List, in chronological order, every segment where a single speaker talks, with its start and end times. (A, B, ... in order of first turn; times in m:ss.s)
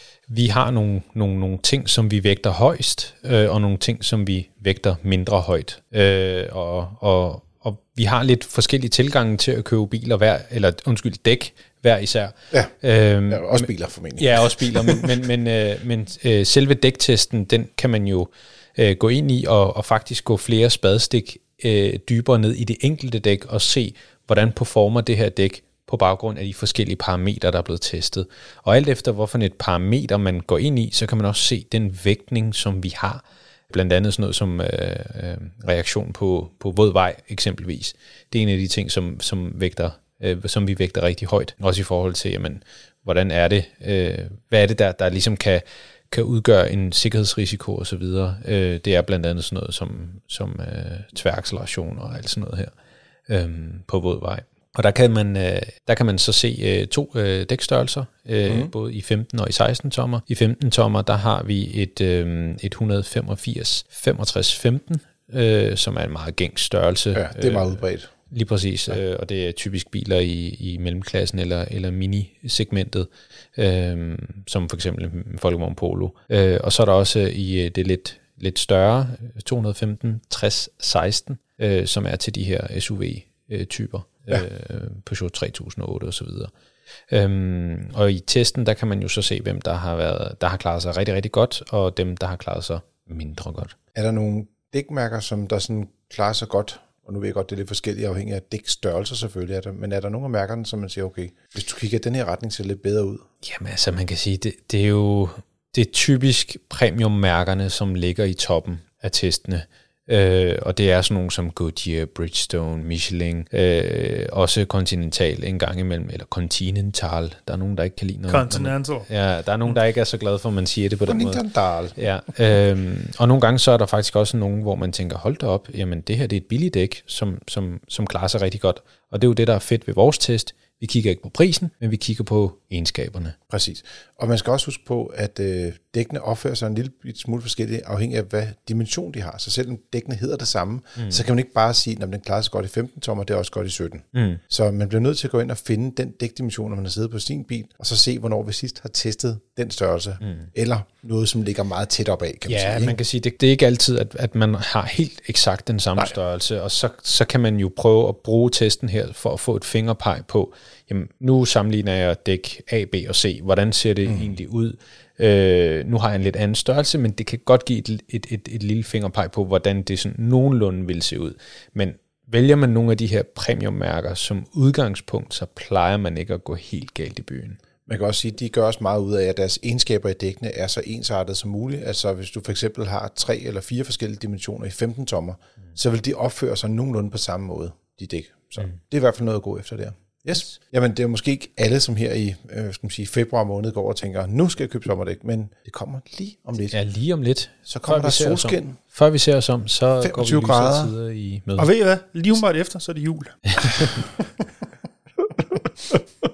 0:00.3-0:52.7 A
0:13.3-0:15.2 B
0:53.3-1:26.5 A
0:58.5-0:58.7 B
1:07.1-1:08.1 B
1:27.1-1:33.8 A
1:33.9-1:43.2 B
1:43.4-2:01.4 A
1:58.3-1:59.1 C
2:01.1-2:02.0 B
2:02.0-2:13.4 A
2:13.5-2:33.0 B
2:21.0-2:21.2 A
2:24.1-2:24.4 A
2:30.2-2:30.5 A
2:32.5-2:57.6 A
2:44.0-2:44.4 B
2:57.9-3:16.8 B
3:16.7-3:21.7 A
3:17.7-3:18.8 B
3:20.0-3:20.9 B
3:21.6-3:24.2 C
3:23.5-3:23.9 A
3:25.4-3:26.0 B